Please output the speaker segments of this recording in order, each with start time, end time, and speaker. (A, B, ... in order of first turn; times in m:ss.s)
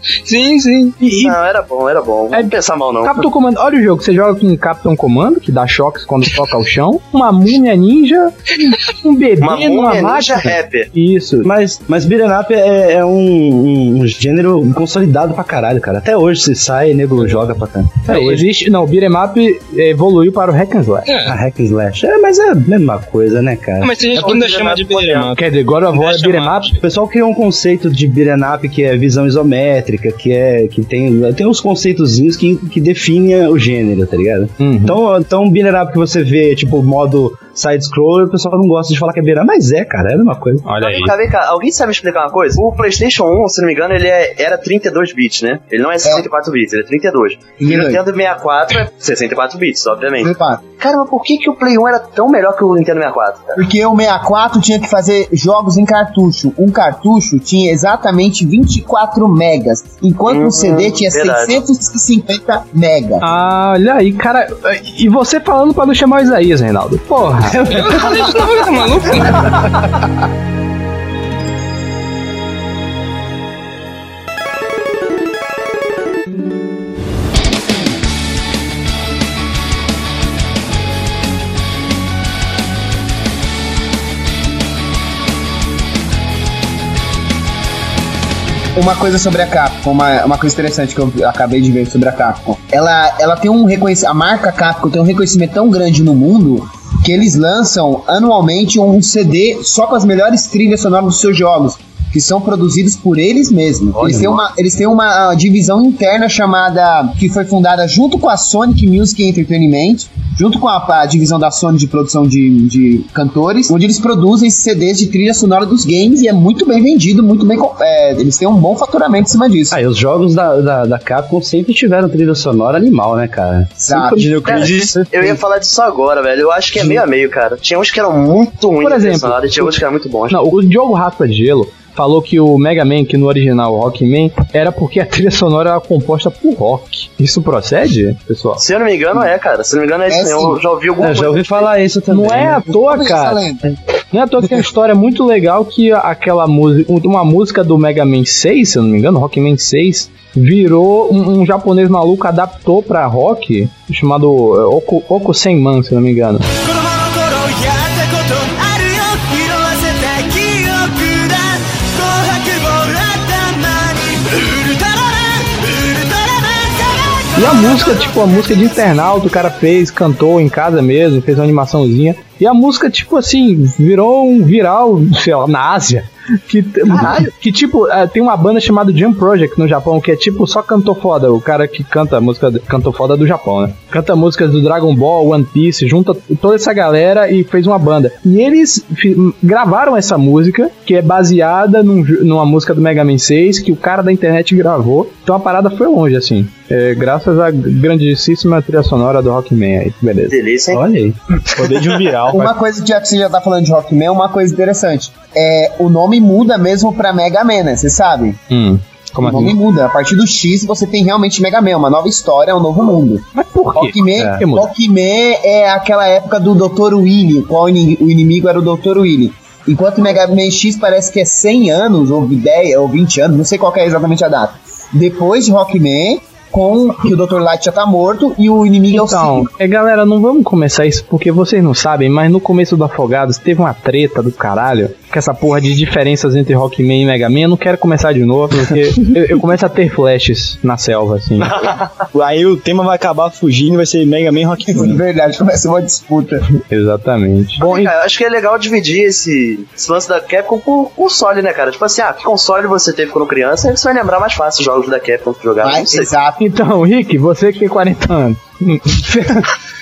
0:00.2-0:01.0 A
0:01.0-0:01.4 B
0:01.2-0:03.3 C
0:02.3-0:11.5 B
0:09.4-0:10.9 C
0:11.4-0:18.5 D
0:18.1-0:21.1 B
0:21.1-0:21.4 A
0:21.3-0:24.0 D
0:23.8-0:25.4 A
0:24.1-0:25.3 C
0:25.4-0:26.8 B
0:25.9-0:26.8 A
0:26.8-0:40.6 D
0:34.6-0:35.0 B
0:40.6-0:41.1 B
0:40.8-0:53.6 C
0:47.6-0:48.0 E
0:50.2-0:50.6 E
0:53.6-1:03.2 E
1:00.3-1:01.6 C
1:03.2-1:07.6 B
1:07.5-1:08.5 D
1:07.7-1:09.8 A
1:28.7-1:59.8 E
1:44.0-1:44.4 C
1:59.7-2:04.0 D
2:03.8-2:04.7 E
2:03.9-2:05.1 F
2:04.4-2:10.4 C
2:08.8-2:18.6 B
2:18.6-2:21.7 C
2:20.1-2:20.6 E
2:21.0-2:22.7 D
2:22.1-2:23.4 B
2:22.6-2:23.6 E
2:24.1-2:36.5 B
2:37.0-2:40.4 F
2:47.4-3:20.4 B
3:20.3-3:20.8 C
3:20.7-3:21.2 D
3:21.5-3:22.5 F
3:22.3-3:28.4 E
3:28.5-3:29.6 B
3:29.2-3:49.5 E
3:33.4-3:34.7 B
3:48.9-4:01.6 B
4:01.4-4:02.0 C
4:02.1-4:05.0 F
4:04.7-4:06.4 E
4:06.7-4:07.9 B
4:07.6-4:16.1 C
4:15.6-4:16.4 E
4:16.4-4:19.5 B